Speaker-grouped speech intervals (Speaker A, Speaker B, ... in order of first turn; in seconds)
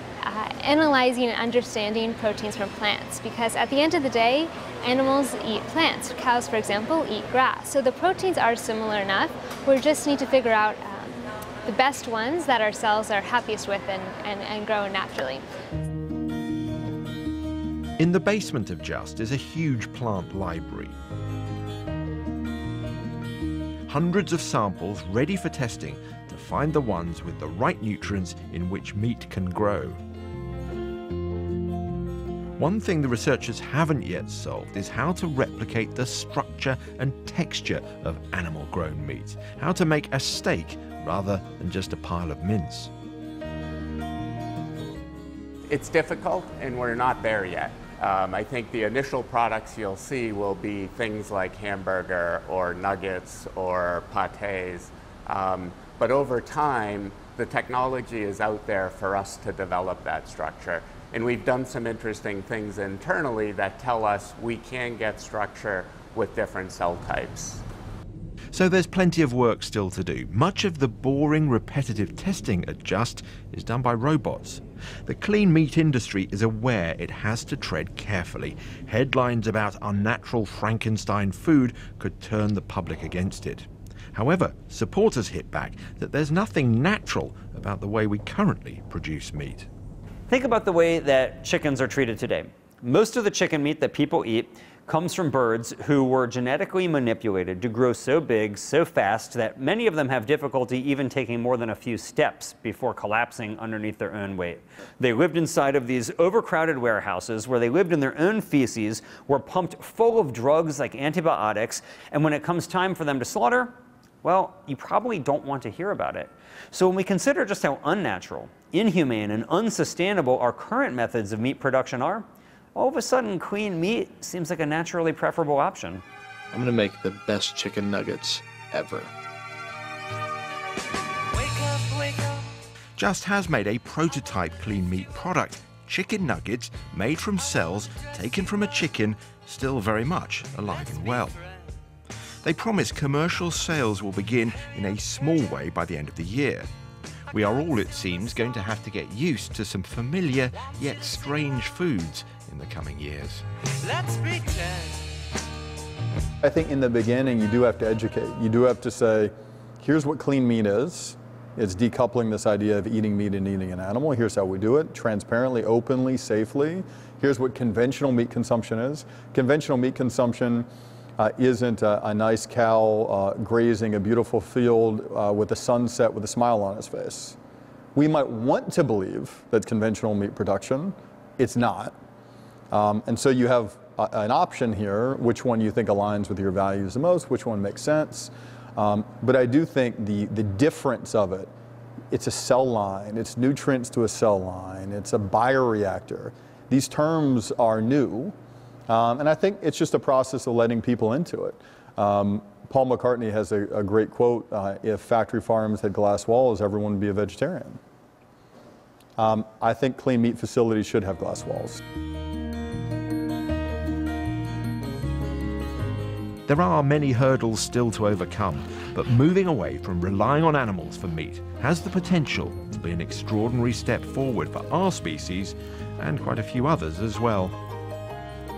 Speaker A: 0.2-15.4
Speaker B: 18.0-20.9, 23.9-30.0, 32.6-42.9, 68.5-89.7, 133.0-141.4, 142.4-146.7, 147.3-153.4, 216.5-227.6
Speaker C: 45.7-67.6
Speaker D: 90.3-126.0
Speaker E: 126.5-129.1
Speaker F: 156.4-170.7, 171.2-177.4, 177.9-181.9, 182.7-191.5, 192.1-198.3, 198.9-207.8, 209.2-211.8